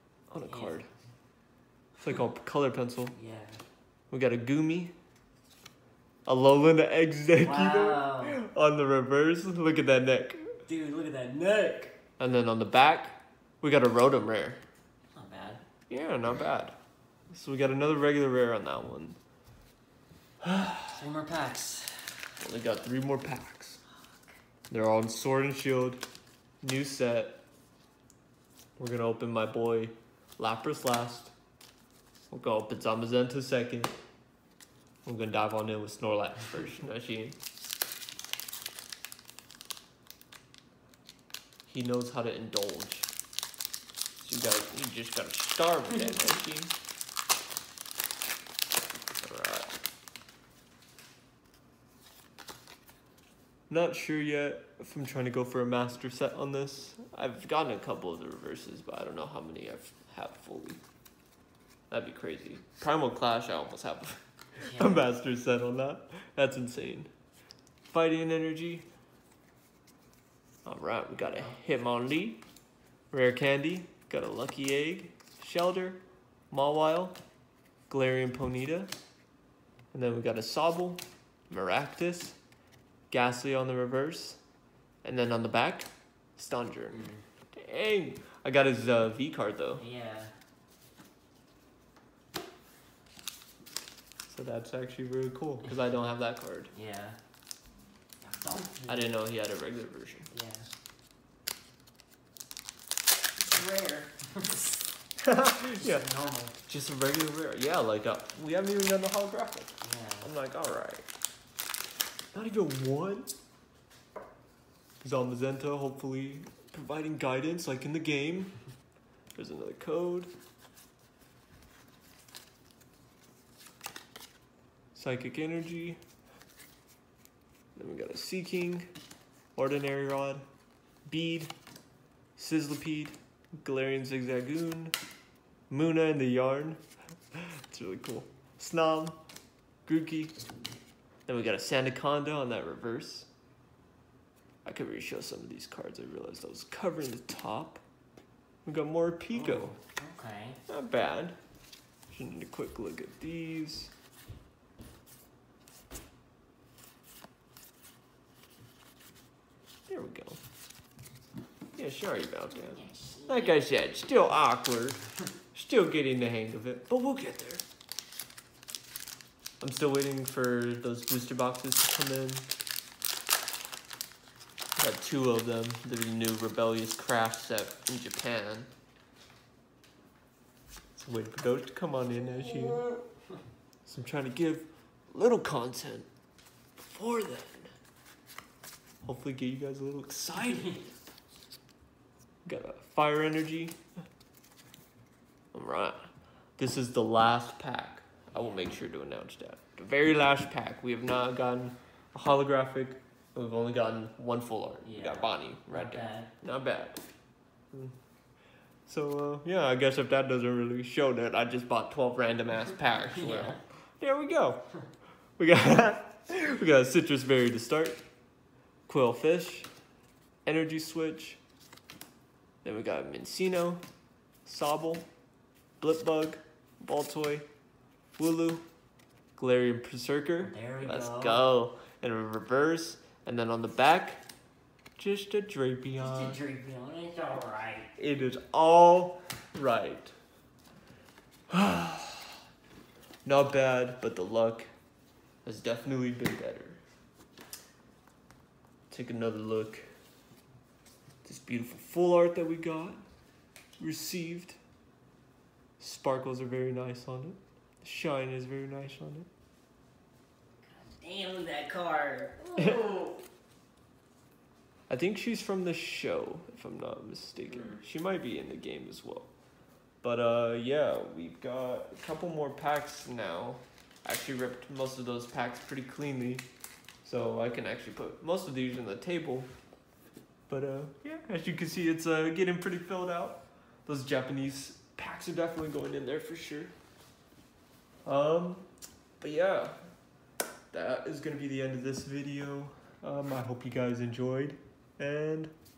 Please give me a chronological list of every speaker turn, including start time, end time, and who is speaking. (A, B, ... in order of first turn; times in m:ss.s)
0:00.3-0:00.9 A
0:00.4-0:00.9 B
0:02.0-0:03.2 A
0:03.1-0:03.6 B
0:04.1-0:04.9 A
0:06.2-0:10.6 A
0:07.4-0:08.4 B
0:10.6-0:11.9 B
0:12.2-0:14.6 A
0:15.1-0:15.6 B
0:15.9-0:16.7 A
0:17.3-0:19.2 A
0:20.4-0:20.9 A
0:20.9-0:22.2 B
0:22.4-0:23.8 A
0:24.0-0:24.4 B
0:24.7-0:26.0 A
0:26.6-0:27.4 A
0:28.8-0:31.3 A
0:32.3-0:33.9 A
0:35.0-0:37.4 A
0:41.7-0:43.1 A
0:44.2-0:46.7 A
0:49.2-0:49.7 A
0:53.7-1:00.8 A
1:01.9-1:07.1 A
1:04.6-1:05.1 B
1:07.9-1:08.9 A
1:10.6-1:12.4 A
1:11.2-1:11.6 B
1:13.1-1:17.2 A
1:17.9-1:18.9 A
1:19.9-1:22.4 A
1:23.1-1:24.4 A
1:25.0-1:29.8 A
1:26.9-1:27.2 B
1:29.8-1:30.3 B
1:34.3-1:36.7 A
1:36.7-1:37.2 B
1:38.2-1:39.1 B
1:38.9-1:40.3 A
1:40.3-1:40.7 B
1:43.4-1:44.8 B
1:45.2-1:46.1 A
1:45.8-1:46.6 B
1:46.6-1:51.0 A
1:49.8-1:50.3 B
1:52.3-1:53.3 A
1:55.0-1:58.6 A
1:59.4-2:00.3 A
2:04.9-2:06.0 A
2:07.7-2:08.9 A
2:09.6-2:10.4 A
2:11.1-2:11.5 A
2:12.4-2:14.9 A
2:15.7-2:16.8 A
2:17.3-2:19.2 A
2:19.8-2:20.4 A
2:21.3-2:23.3 A
2:24.6-2:27.8 A
2:28.6-2:29.8 A
2:29.3-2:30.6 B
2:30.7-2:31.4 A
2:32.1-2:33.9 A
2:39.9-2:40.4 A
2:41.8-2:47.6 A
2:42.5-2:43.6 B
2:49.6-2:52.5 A
2:54.8-2:58.7 A
3:01.0-3:03.0 A
3:03.8-3:06.1 A
3:06.8-3:07.7 A
3:09.0-3:10.9 A
3:12.4-3:13.8 A
3:15.5-3:16.0 A
3:16.6-3:27.0 A
3:18.3-3:18.8 B
3:24.8-3:26.3 B
3:28.9-3:34.6 A
3:33.1-3:33.6 B
3:35.4-3:38.0 A
3:38.9-3:39.7 A
3:40.4-3:41.4 A
3:42.6-3:43.8 A
3:44.4-3:45.1 A
3:45.8-3:47.4 A
3:48.2-3:48.6 A
3:49.4-3:54.2 A
3:50.4-3:51.4 B
3:55.0-3:56.4 A
3:56.0-3:57.9 B
3:58.0-4:00.1 A
4:01.5-4:02.4 A
4:03.2-4:04.7 A
4:05.4-4:06.8 A
4:08.9-4:09.8 A
4:11.2-4:13.0 A
4:13.8-4:14.6 A
4:15.8-4:19.3 A
4:20.6-4:23.2 B
4:24.9-4:29.3 A
4:27.5-4:27.8 B
4:30.0-4:36.4 A
4:37.0-4:39.5 A
4:40.5-4:46.7 A
4:48.0-4:48.6 A
4:49.2-4:49.7 A
4:50.7-4:55.5 A